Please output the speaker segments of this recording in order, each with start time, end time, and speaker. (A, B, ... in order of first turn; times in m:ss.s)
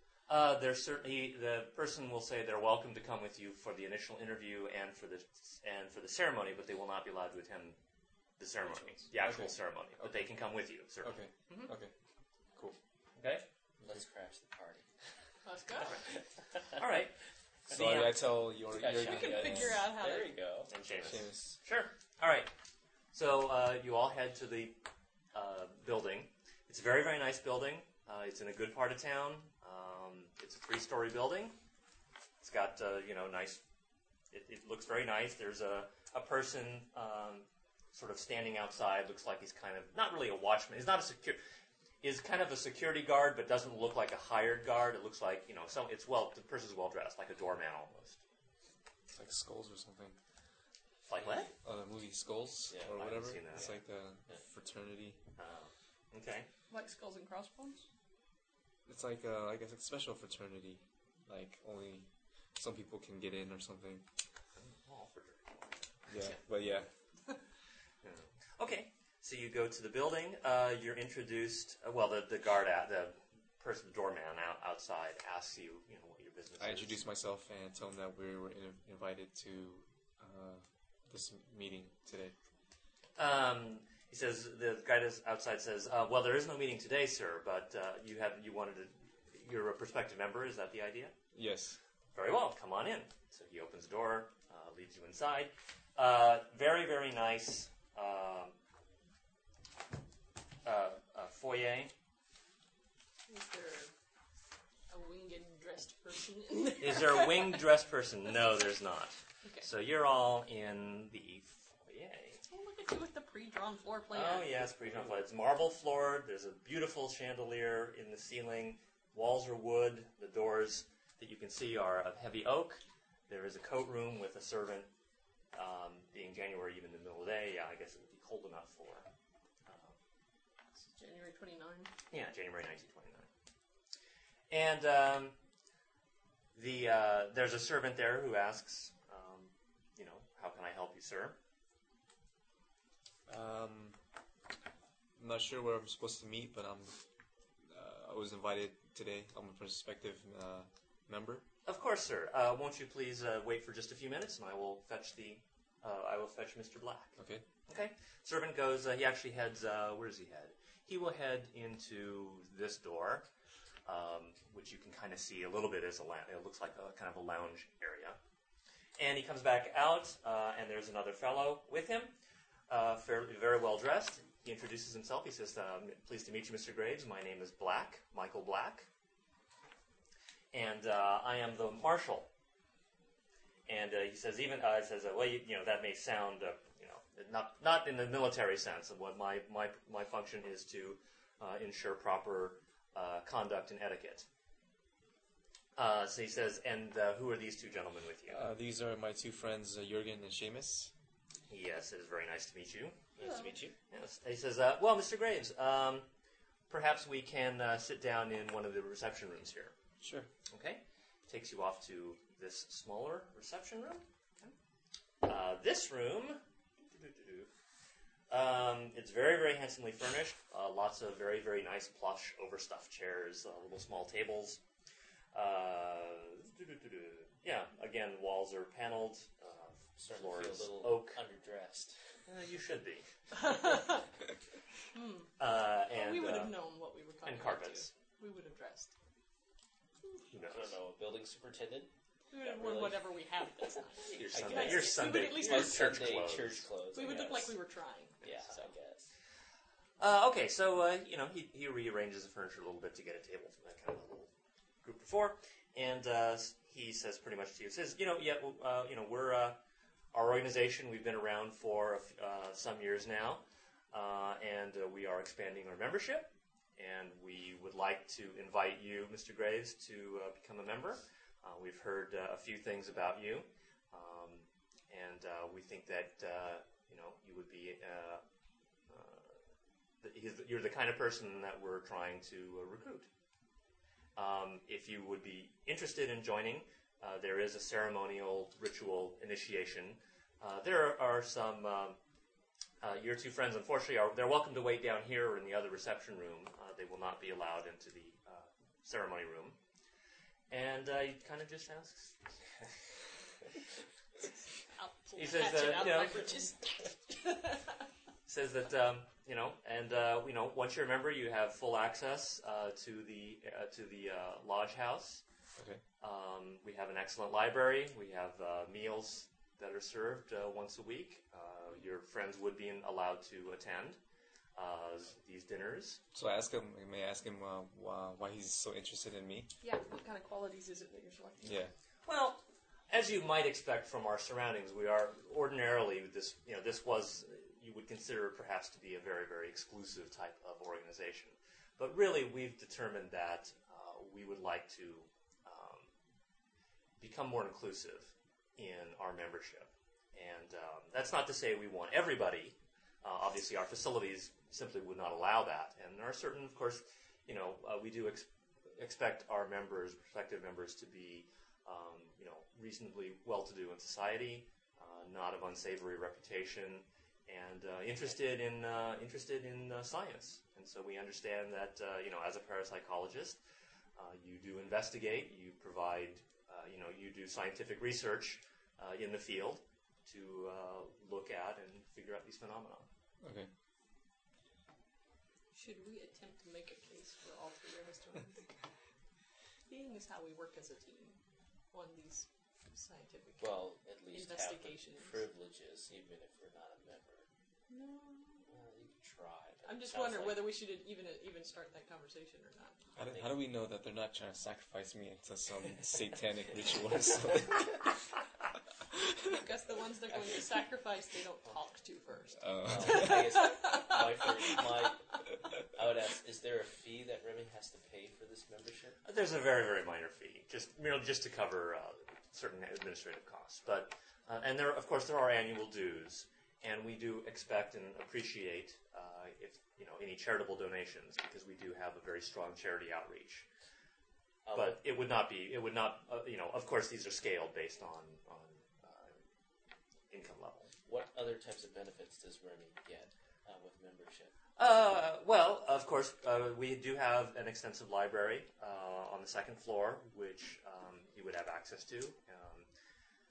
0:00.3-0:07.8 A
0:08.4-0:11.7 A
0:09.0-0:10.3 B
0:11.0-0:11.9 B
0:13.2-0:13.4 A
0:13.8-0:14.9 C
0:15.4-0:16.0 D
0:16.8-0:17.1 A
0:17.7-0:18.2 A
0:17.7-0:19.9 B
0:18.6-0:20.7 C
0:19.0-0:20.4 D
0:20.7-0:22.5 A
0:21.0-0:21.6 B
0:23.1-0:24.8 A
0:25.3-0:31.6 A
0:32.4-0:33.6 A
0:34.3-0:41.4 A
0:42.0-0:48.2 A
0:49.2-0:50.2 B
0:51.1-0:51.5 A
0:51.6-0:55.2 B
0:52.7-0:54.4 C
0:52.9-0:53.7 A
0:55.4-0:56.5 A
0:56.7-0:57.9 D
0:58.9-1:04.0 B
1:04.6-1:05.9 A
1:06.1-1:06.9 B
1:08.0-1:17.0 A
1:16.6-1:22.3 B
1:23.2-1:31.2 A
1:31.3-1:31.8 B
1:32.1-1:38.6 A
1:40.6-1:41.9 A
1:43.3-1:43.9 D
1:44.9-1:47.6 D
1:46.8-1:52.4 A
1:52.5-1:54.6 D
1:54.1-2:04.9 A
1:54.6-1:55.2 C
2:05.5-2:09.1 A
2:09.7-2:10.0 A
2:10.9-2:11.9 D
2:12.1-2:13.3 A
2:14.5-2:15.4 A
2:16.6-2:21.4 A
2:23.3-2:24.0 B
2:25.2-2:27.0 B
2:27.6-2:31.4 B
2:31.7-2:43.3 A
2:37.2-2:37.4 B
2:43.9-2:48.2 A
2:49.0-2:52.2 A
2:52.7-2:58.9 A
3:00.5-3:02.3 A
3:03.7-3:14.3 A
3:15.8-3:18.5 A
3:18.3-3:20.9 B
3:21.5-3:23.0 A
3:23.2-3:23.8 C
3:23.2-3:23.6 D
3:23.9-3:26.1 A
3:26.7-3:29.7 A
3:30.0-3:30.3 C
3:30.5-3:34.5 A
3:35.2-3:37.5 A
3:38.3-3:44.6 A
3:45.3-3:51.2 A
3:50.0-3:52.0 C
3:52.3-3:53.1 A
3:53.4-3:54.0 D
3:54.9-3:55.3 D
3:55.4-3:56.6 A
3:55.9-3:58.9 D
3:57.2-3:57.9 A
4:00.3-4:00.8 A
4:00.4-4:03.1 C
4:02.3-4:06.0 D
4:03.7-4:07.6 C
4:04.0-4:06.7 A
4:06.9-4:08.7 D
4:08.2-4:09.0 C
4:10.0-4:14.3 A
4:14.8-4:19.6 A
4:20.1-4:38.2 A
4:38.9-4:39.4 A
4:40.0-4:43.1 A
4:44.2-4:52.0 A
4:52.8-4:59.6 A
5:00.5-5:02.3 A
5:04.6-5:07.7 D
5:05.2-5:06.3 A
5:08.3-5:15.2 A
5:15.6-5:15.8 B
5:16.0-5:24.0 A
5:24.6-5:26.0 A
5:26.1-5:29.5 B
5:29.6-5:31.6 D
5:31.4-5:31.7 B
5:32.1-5:45.9 A
5:47.0-6:13.4 A
6:14.0-6:22.9 A
6:23.2-6:23.5 B
6:25.5-6:28.5 D
6:29.7-6:31.2 D
6:31.7-6:35.2 D
6:33.4-6:37.3 C
6:37.7-6:38.5 D
6:38.5-6:40.5 C
6:39.6-6:42.8 D
6:43.0-6:47.9 B
6:43.1-6:43.4 C
6:49.2-6:54.9 D
6:52.4-6:53.2 B
6:52.6-6:55.2 C
6:55.8-6:59.0 C
6:59.0-7:13.5 A
7:14.4-7:14.8 C
7:14.6-7:19.2 A
7:20.1-7:20.7 A
7:20.9-7:24.3 C
7:24.6-7:32.7 A